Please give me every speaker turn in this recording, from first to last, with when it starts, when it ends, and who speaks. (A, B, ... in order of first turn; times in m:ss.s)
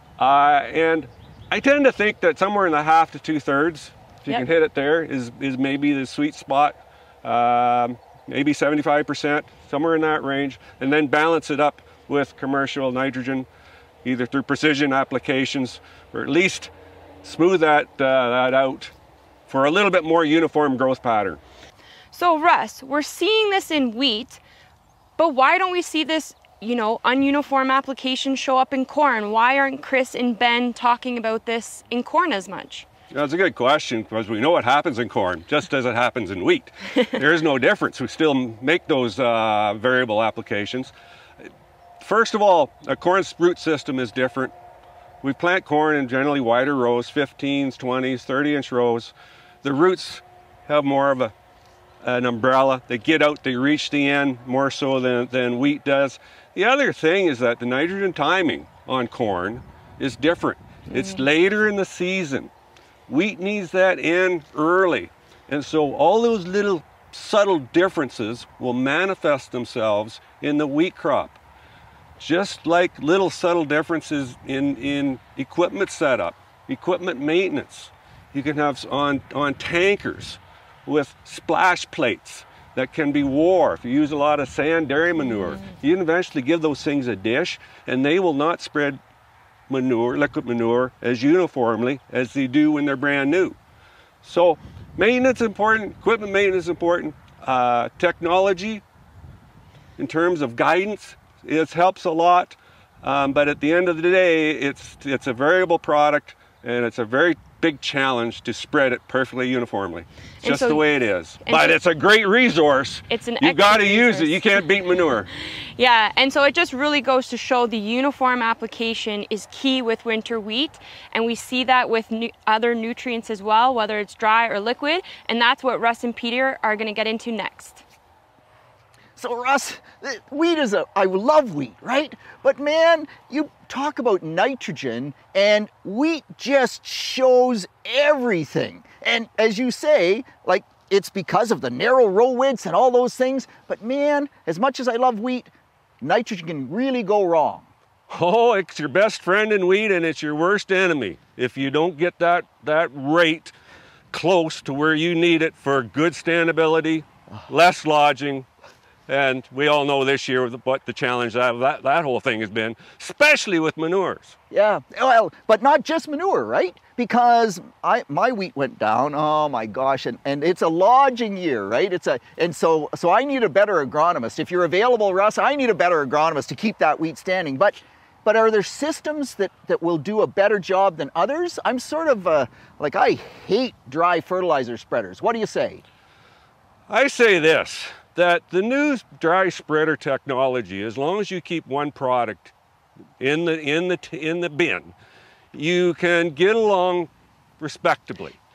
0:00.2-0:13.5 A
0:14.0-0:16.7 A
0:17.2-0:18.9 A
0:19.5-0:21.4 A
0:22.1-0:24.4 B
0:25.2-0:32.9 B
0:33.1-0:40.9 A
0:42.0-0:44.5 A
0:45.2-0:51.3 A
0:52.0-1:02.5 A
1:00.9-1:01.2 B
1:03.1-1:11.4 A
1:12.2-1:29.0 A
1:29.7-1:33.6 A
1:34.2-1:38.8 A
1:40.0-1:55.3 A
1:50.4-1:50.9 B
1:51.4-1:51.8 B
1:53.1-1:54.6 B
1:55.8-2:07.8 B
2:09.2-2:27.7 C
2:28.1-2:33.5 A
2:34.1-2:38.5 A
2:39.1-2:44.4 A
2:44.5-3:05.8 C
3:06.9-3:12.5 A
3:13.2-3:14.9 A
3:15.5-3:18.4 A